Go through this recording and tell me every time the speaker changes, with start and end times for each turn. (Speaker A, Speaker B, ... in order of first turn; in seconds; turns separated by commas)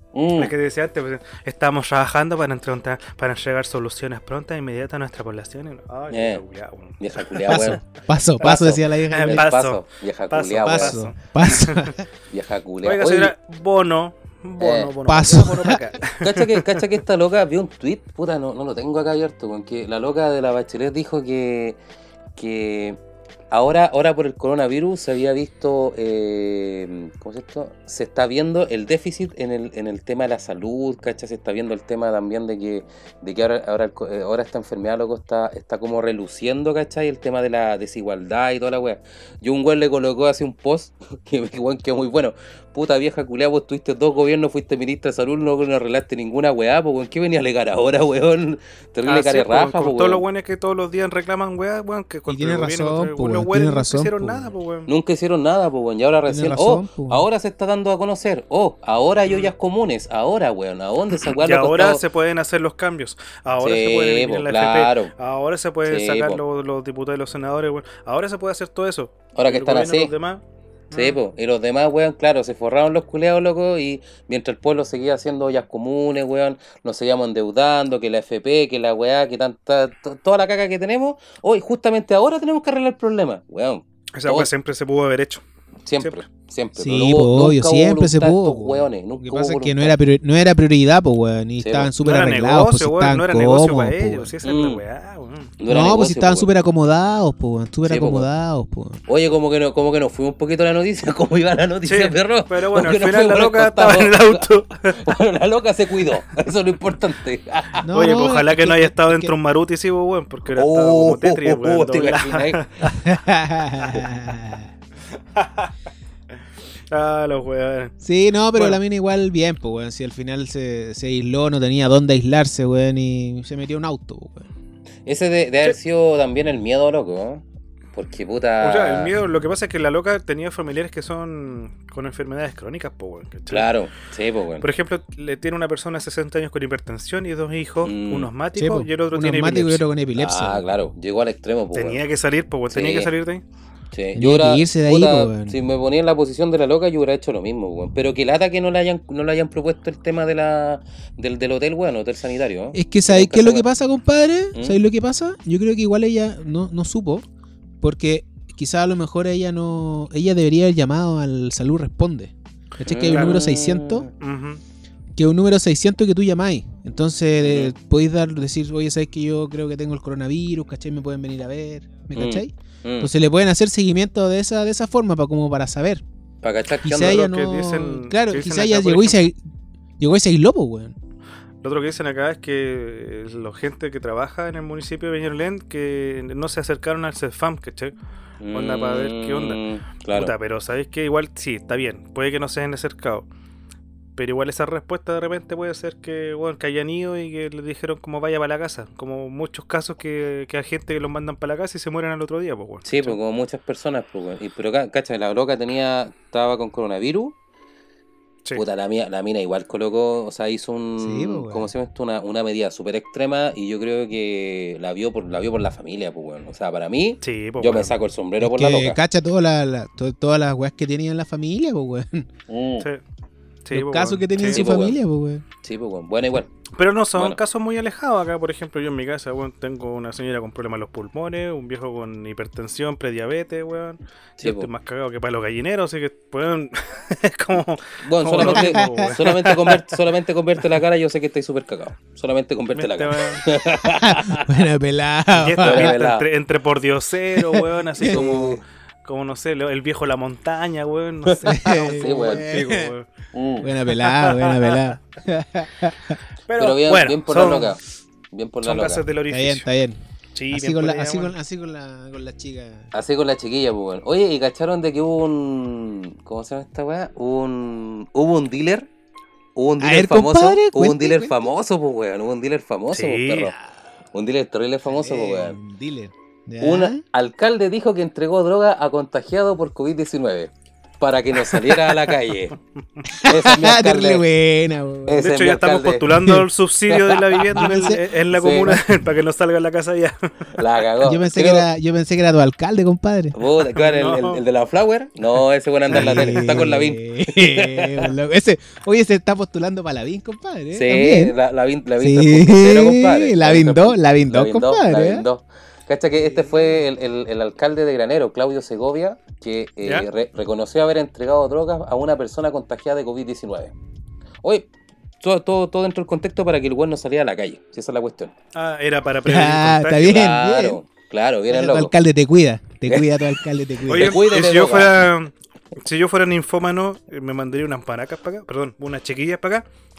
Speaker A: 0.1-0.5, Speaker B: 0.4-7.8, Speaker A: 6.1-6.4, Speaker A: 7.0-7.8, Speaker C: 7.5-9.5, Speaker A: 8.4-11.0, Speaker B: 9.1-12.0, Speaker C: 10.6-12.0, Speaker A: 12.3-13.3, Speaker B: 12.8-16.8, Speaker A: 14.6-14.9, Speaker C: 15.1-15.8, Speaker A: 16.2-21.8, Speaker A: 22.4-23.0, Speaker A: 23.5-50.2, Speaker B: 49.1-54.9, Speaker C: 52.3-54.5, Speaker A: 54.9-62.0, Speaker C: 56.3-57.3, Speaker B: 61.3-71.2, Speaker A: 63.6-65.1, Speaker A: 65.9-66.4, Speaker A: 69.3-70.1, Speaker A: 70.9-84.5, Speaker B: 84.2-85.4, Speaker A: 85.9-90.0, Speaker C: 86.8-94.3, Speaker A: 91.6-91.9, Speaker B: 92.0-95.5, Speaker A: 94.4-94.8, Speaker A: 95.6-96.5, Speaker C: 95.7-99.0, Speaker A: 97.8-98.3, Speaker A: 99.1-107.8, Speaker B: 101.8-105.0, Speaker C: 107.8-109.3, Speaker B: 107.9-113.1, Speaker A: 110.5-112.7, Speaker C: 113.0-114.7, Speaker B: 115.3-115.7, Speaker B: 116.9-117.9, Speaker C: 118.0-124.5, Speaker B: 118.5-118.8, Speaker A: 125.1-127.4, Speaker A: 127.9-129.1, Speaker B: 128.6-133.7, Speaker A: 133.5-134.7, Speaker B: 134.6-139.8, Speaker A: 137.8-138.3, Speaker C: 138.6-140.7, Speaker A: 140.2-142.0, Speaker B: 141.7-143.4, Speaker A: 142.7-143.1, Speaker A: 143.9-153.7, Speaker C: 144.2-145.6, Speaker C: 152.7-157.2, Speaker A: 154.5-154.8, Speaker C: 157.8-164.1, Speaker A: 162.8-164.1, Speaker B: 163.0-163.4, Speaker B: 164.2-164.6, Speaker C: 165.2-176.0, Speaker A: 167.4-167.7, Speaker A: 172.2-173.1, Speaker A: 176.4-177.3, Speaker C: 176.8-179.4, Speaker B: 177.0-179.2, Speaker C: 180.0-180.9, Speaker B: 181.6-187.9, Speaker A: 188.4-190.3, Speaker B: 188.5-193.3, Speaker B: 194.2-203.2, Speaker A: 202.8-207.3, Speaker A: 208.6-219.0, Speaker C: 211.0-211.7, Speaker B: 217.2-217.9, Speaker C: 218.4-222.3, Speaker A: 222.5-222.9, Speaker B: 223.7-224.6, Speaker C: 223.7-225.4, Speaker A: 224.4-225.0, Speaker A: 225.6-226.5, Speaker B: 226.7-239.8, Speaker A: 234.4-234.7, Speaker A: 238.0-244.6, Speaker C: 238.4-239.1, Speaker B: 242.8-243.5, Speaker C: 244.0-246.0, Speaker B: 245.3-253.1, Speaker A: 245.6-246.3, Speaker C: 248.0-248.3, Speaker A: 248.0-248.6, Speaker A: 251.3-252.5, Speaker C: 251.4-252.9, Speaker A: 253.3-253.7, Speaker C: 253.6-256.2, Speaker B: 254.0-254.9, Speaker B: 256.5-257.8, Speaker A: 256.6-259.1, Speaker B: 258.6-259.7, Speaker C: 259.3-260.0, Speaker B: 260.4-261.3, Speaker C: 260.5-262.9, Speaker A: 262.9-268.9, Speaker A: 269.6-273.6, Speaker C: 269.8-271.4, Speaker B: 272.9-273.5, Speaker A: 274.1-275.6, Speaker C: 274.9-277.0, Speaker A: 276.6-282.6, Speaker B: 281.5-282.1, Speaker C: 283.1-285.3, Speaker A: 283.2-284.3, Speaker A: 285.1-286.2, Speaker B: 285.2-290.6, Speaker A: 286.9-287.7, Speaker C: 287.6-288.0, Speaker A: 288.3-288.8, Speaker A: 290.6-291.7, Speaker C: 291.0-293.4, Speaker A: 293.3-298.1, Speaker B: 293.8-294.4, Speaker C: 295.9-301.4, Speaker B: 295.9-296.5, Speaker A: 300.7-313.7, Speaker C: 302.0-305.3, Speaker A: 314.4-314.7, Speaker A: 315.2-318.3, Speaker B: 318.5-320.3, Speaker C: 319.2-320.8, Speaker A: 320.0-321.9, Speaker C: 321.5-324.3, Speaker A: 322.9-325.0, Speaker B: 323.9-329.7